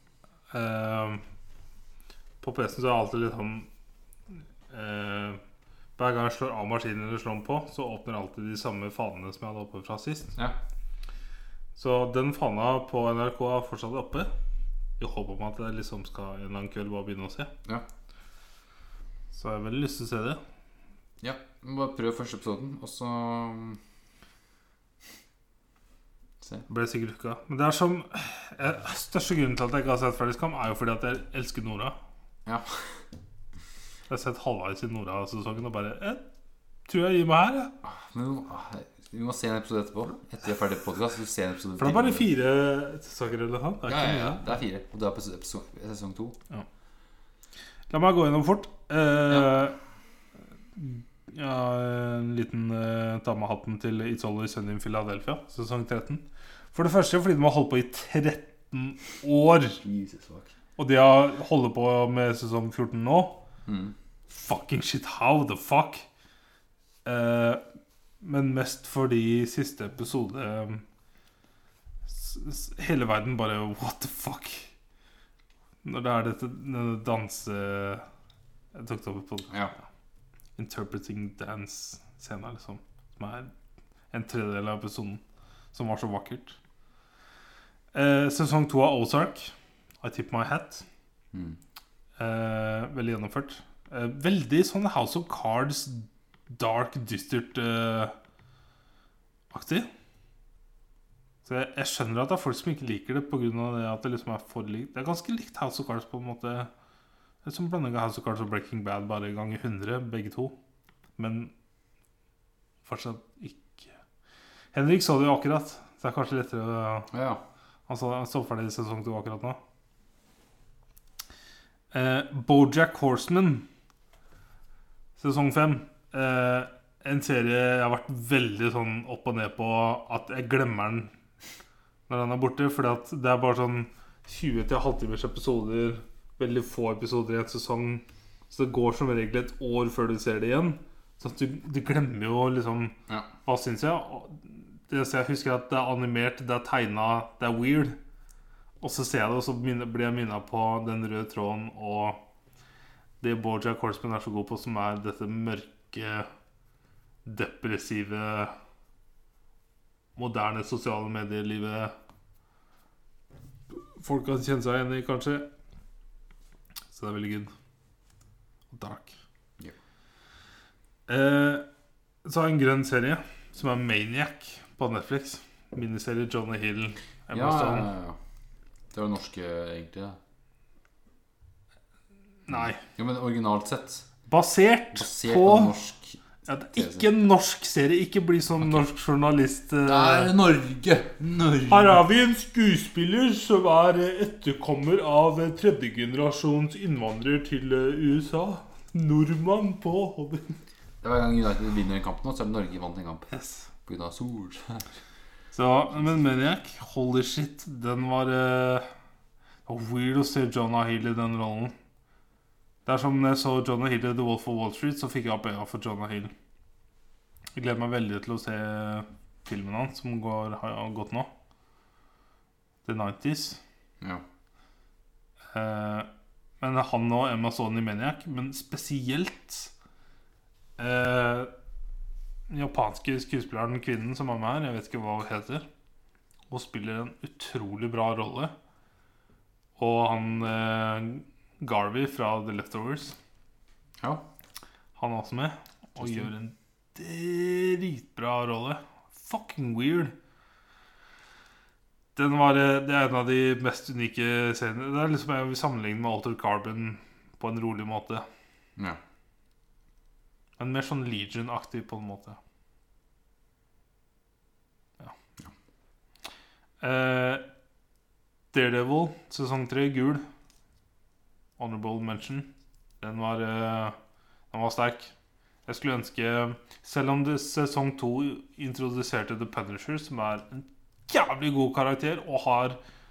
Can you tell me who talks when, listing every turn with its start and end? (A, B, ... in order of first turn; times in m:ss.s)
0:00.5-0:01.2 A
0:02.4-0:03.7 A
0:04.7-0:05.4 A
0:06.0-0:10.3 A
0:11.8-0:14.3 A
0:15.0-0:17.5 A
0:19.3-0:20.4 A
0:21.2-0:23.8 B
0:26.7-0:32.0 A
0:32.5-0:33.0 B
0:34.1-0:36.2 A
0:36.9-0:37.7 A
0:37.8-0:42.3 B
0:41.8-0:44.6 A
0:43.9-0:46.4 B
0:47.9-0:49.8 A
0:50.8-0:59.8 A
0:59.8-1:00.6 B
1:00.8-1:03.4 A
1:03.7-1:04.0 B
1:04.3-1:06.1 A
1:07.0-1:07.6 A
1:08.2-1:10.8 A
1:12.1-1:14.7 A
1:15.8-1:18.1 A
1:18.7-1:19.5 A
1:20.6-1:23.5 A
1:24.1-1:25.2 A
1:25.7-1:26.6 A
1:27.9-1:30.8 A
1:31.3-1:31.6 B
1:32.2-1:38.2 A
1:39.5-1:39.9 A
1:41.4-1:46.7 A
1:47.4-1:50.5 A
1:51.2-1:51.5 A
1:52.8-1:53.9 A
1:54.7-1:57.1 A
1:57.1-1:57.4 B
1:57.9-1:59.6 A
2:01.9-2:03.6 A
2:05.2-2:11.1 A
2:12.1-2:28.0 A
2:28.8-2:32.2 A
2:33.2-2:36.3 A
2:37.2-2:38.5 A
2:40.2-2:41.9 A
2:43.7-2:45.5 A
2:46.9-2:47.5 A
2:48.7-2:49.2 A
2:51.1-2:51.6 A
2:52.2-2:57.9 A
2:57.3-2:58.2 B
2:58.9-3:00.2 B
3:02.5-3:02.8 A
3:02.5-3:04.1 B
3:04.3-3:05.7 A
3:04.9-3:07.1 B
3:06.5-3:10.3 A
3:09.8-3:12.0 B
3:11.7-3:20.6 A
3:21.0-3:23.3 B
3:23.3-3:23.7 A
3:23.8-3:24.8 B
3:25.5-3:28.9 A
3:29.7-3:31.8 A
3:32.9-3:36.3 A
3:37.6-3:41.3 A
3:42.8-3:43.6 A
3:45.5-3:46.1 A
3:46.6-3:49.7 A
3:50.8-3:51.5 A
3:52.5-3:55.7 A
3:56.5-3:58.5 A
3:59.8-4:03.2 A
4:05.0-4:10.1 A
4:06.0-4:06.3 B
4:12.2-4:18.2 A
4:20.6-4:22.4 A
4:26.8-4:27.4 A
4:28.5-4:30.2 A
4:31.6-4:34.0 A
4:34.5-4:35.1 A
4:35.7-4:42.8 A